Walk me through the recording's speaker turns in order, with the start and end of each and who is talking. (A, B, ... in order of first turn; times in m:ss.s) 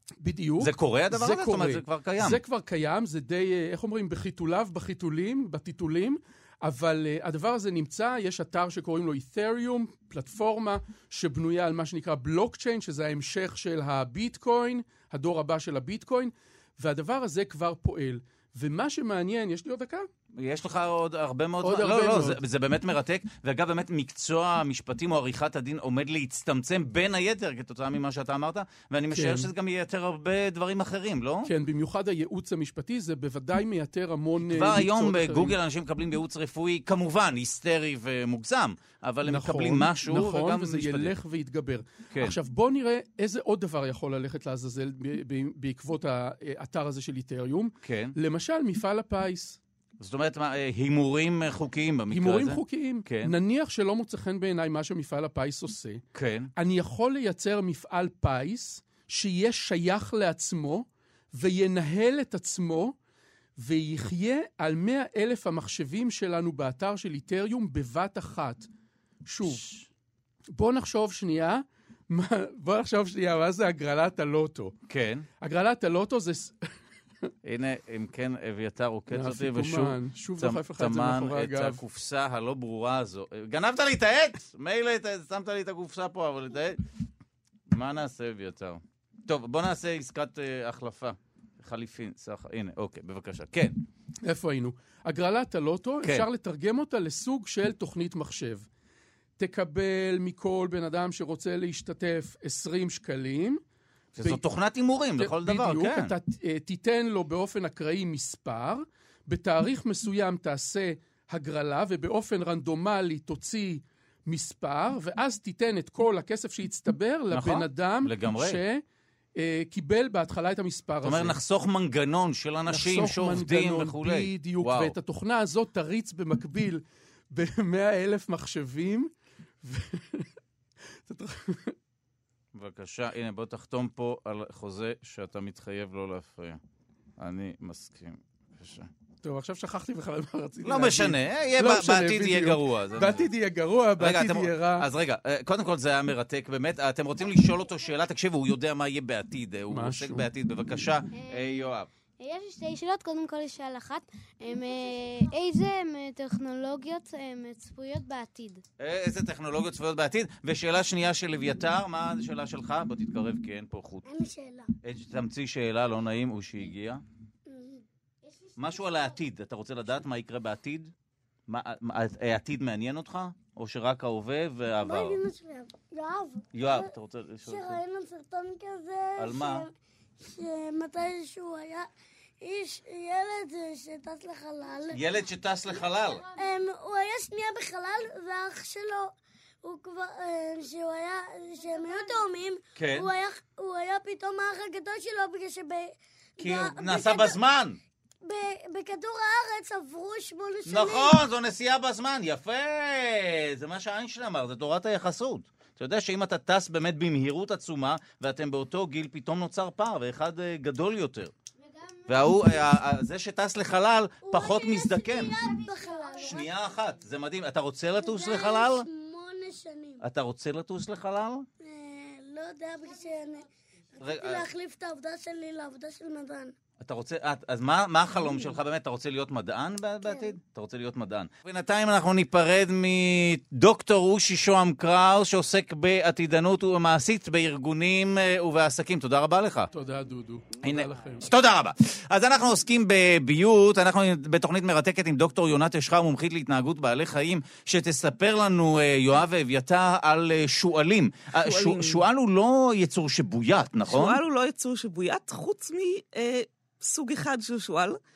0:00.2-0:20.1 A
0:00.6-0:02.4 B
0:20.3-0:31.5 B
0:21.6-0:22.4 A
0:29.1-0:29.5 A
0:31.4-0:35.5 A
0:34.4-0:41.2 B
0:39.2-0:49.6 A
0:42.1-0:42.4 B
0:47.8-0:48.2 B
0:50.0-0:53.3 B
0:52.1-0:56.0 A
0:56.1-0:56.5 B
0:56.6-1:02.9 A
1:03.6-1:08.7 A
1:09.2-1:09.7 A
1:09.4-1:09.8 B
1:10.5-1:14.7 A
1:14.9-1:15.3 B
1:15.4-1:16.6 A
1:17.4-1:26.8 B
1:19.1-1:21.8 A
1:27.7-1:33.8 B
1:34.2-1:38.6 A
1:39.4-1:43.6 A
1:44.1-1:46.2 B
1:45.2-1:58.8 A
1:57.3-1:58.6 B
1:59.4-2:01.4 A
2:01.0-2:05.0 B
2:02.7-2:09.1 A
2:09.6-2:10.3 A
2:11.0-2:11.7 A
2:12.5-2:16.6 B
2:17.2-2:18.9 B
2:19.2-2:24.9 A
2:20.6-2:23.3 B
2:24.0-2:31.9 B
2:29.7-2:30.2 A
2:31.1-2:38.6 C
2:38.8-2:44.0 B
2:44.0-2:44.7 D
2:44.8-2:47.0 B
2:47.5-2:47.8 D
2:48.6-2:50.9 B
2:51.5-2:55.2 B
2:54.8-2:56.9 D
2:56.5-2:57.8 B
2:57.4-3:01.9 D
2:59.2-2:59.6 B
3:02.4-3:05.0 D
3:04.9-3:06.2 B
3:06.3-3:09.1 D
3:09.6-3:17.4 D
3:11.7-3:12.1 C
3:12.8-3:13.1 B
3:16.4-3:17.8 B
3:18.2-3:21.2 D
3:20.7-3:31.3 B
3:31.6-3:32.8 C
3:32.1-3:35.4 B
3:34.2-3:36.5 D
3:35.4-3:36.5 C
3:36.2-3:38.9 B
3:38.0-3:40.0 D
3:40.0-3:41.4 B
3:41.6-3:43.4 D
3:44.0-3:46.5 D
3:44.0-3:44.4 B
3:46.8-3:59.7 B
3:59.7-4:01.3 A
4:00.6-4:14.2 B
4:11.4-4:12.0 E
4:13.9-4:18.0 E